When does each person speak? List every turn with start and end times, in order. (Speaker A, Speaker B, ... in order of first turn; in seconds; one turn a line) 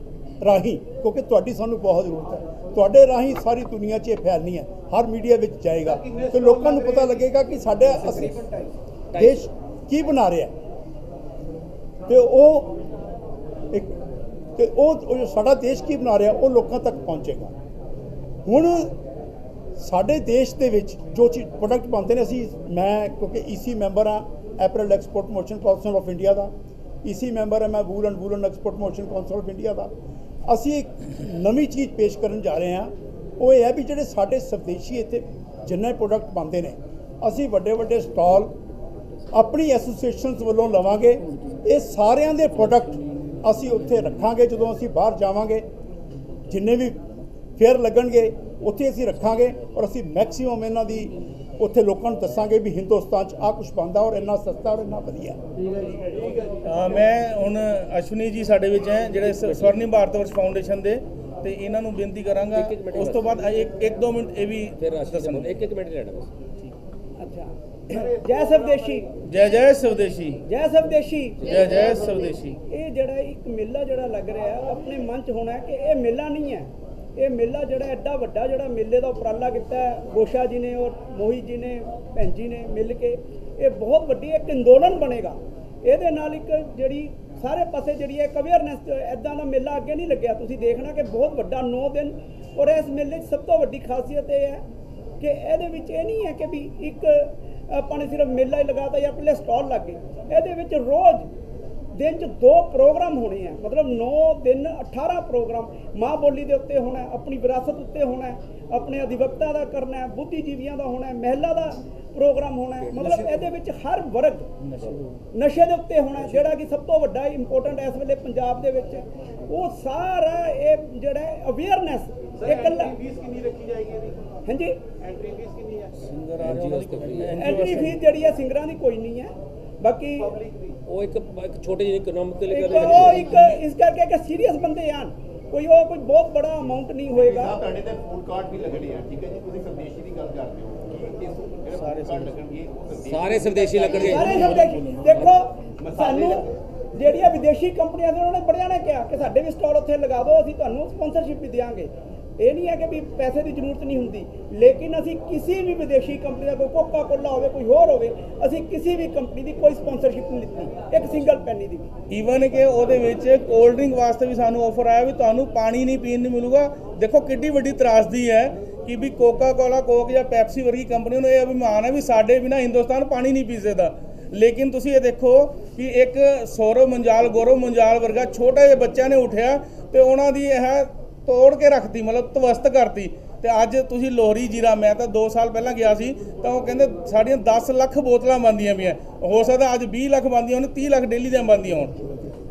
Speaker A: 0.4-8.4
Speaker B: 6.4-7.1
Speaker C: 9.1-9.4
Speaker A: 9.1-10.5
Speaker A: 12.1-12.8
Speaker A: 13.7-13.9
Speaker A: 14.6-17.5
Speaker A: 18.4-18.9
Speaker A: 19.8-26.5
Speaker A: 27.0-29.9
Speaker A: 30.4-38.5
Speaker A: 39.3-45.6
Speaker A: 46.5-47.0
Speaker A: 47.6-55.4
Speaker D: 56.6-65.6
Speaker C: 59.4-59.8
Speaker C: 62.5-63.3
Speaker C: 64.8-66.4
Speaker E: 67.2-69.1
Speaker D: 69.2-70.4
Speaker E: 70.5-94.6
Speaker D: 71.4-72.6
Speaker E: 95.2-101.3
Speaker E: 101.9-114.5
Speaker D: 114.7-115.0
Speaker E: 115.3-123.0
Speaker B: 123.0-124.1
Speaker E: 124.5-124.8
Speaker D: 126.0-128.0
Speaker C: 126.4-127.5
Speaker E: 127.4-130.3
Speaker C: 130.9-133.6
Speaker E: 132.5-137.6
Speaker B: 137.2-144.4
Speaker D: 141.7-142.3
Speaker C: 143.0-144.6
Speaker E: 143.8-161.9
Speaker B: 145.8-146.4
Speaker D: 162.1-192.0